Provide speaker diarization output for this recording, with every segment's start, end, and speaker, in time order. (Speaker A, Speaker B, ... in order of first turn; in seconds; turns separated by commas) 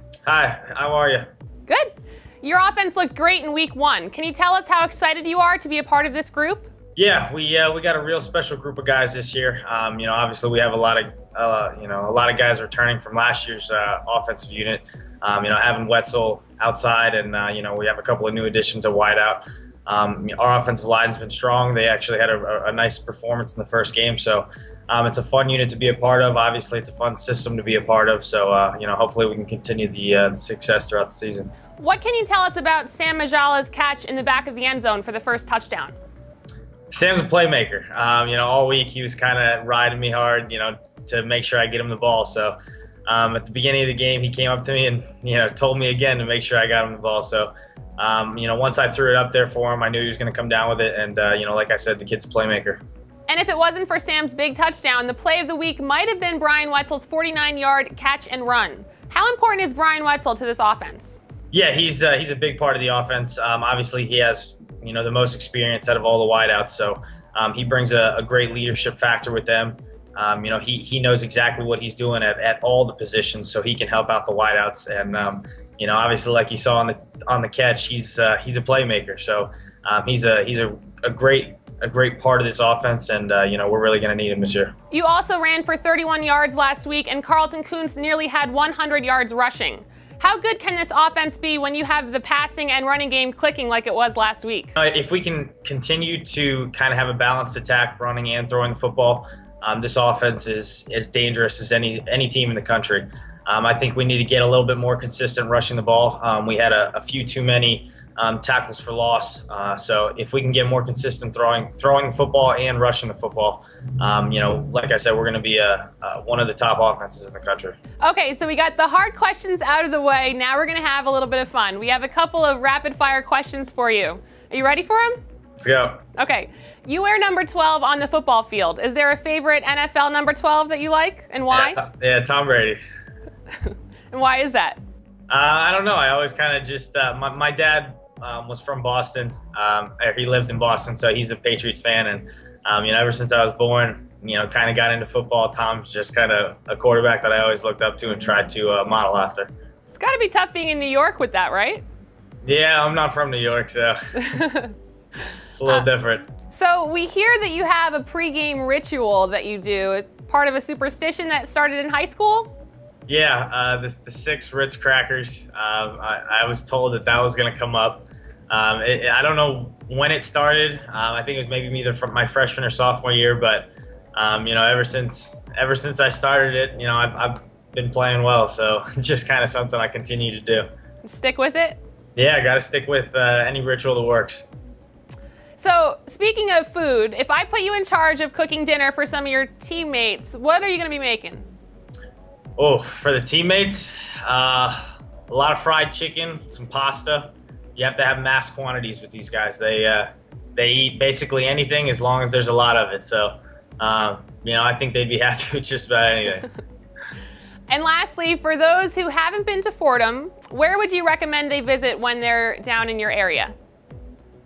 Speaker A: 0.3-1.3, Speaker B: 2.4-6.7, Speaker A: 7.0-31.5, Speaker B: 31.8-36.0, Speaker A: 36.9-52.8, Speaker B: 53.3-61.2, Speaker A: 61.5-84.7, Speaker B: 84.9-94.7, Speaker A: 94.8-117.8, Speaker B: 118.0-125.2, Speaker A: 125.6-126.0, Speaker B: 126.2-131.8, Speaker A: 131.5-132.8, Speaker B: 133.6-134.8, Speaker A: 135.3-149.5, Speaker B: 149.9-151.8, Speaker A: 152.4-154.4, Speaker B: 154.3-154.7, Speaker A: 155.6-156.3, Speaker B: 156.5-162.5, Speaker A: 163.1-180.7, Speaker B: 181.0-181.8, Speaker A: 182.2-184.5, Speaker B: 185.6-191.5, Speaker A: 192.6-206.5, Speaker B: 207.7-213.5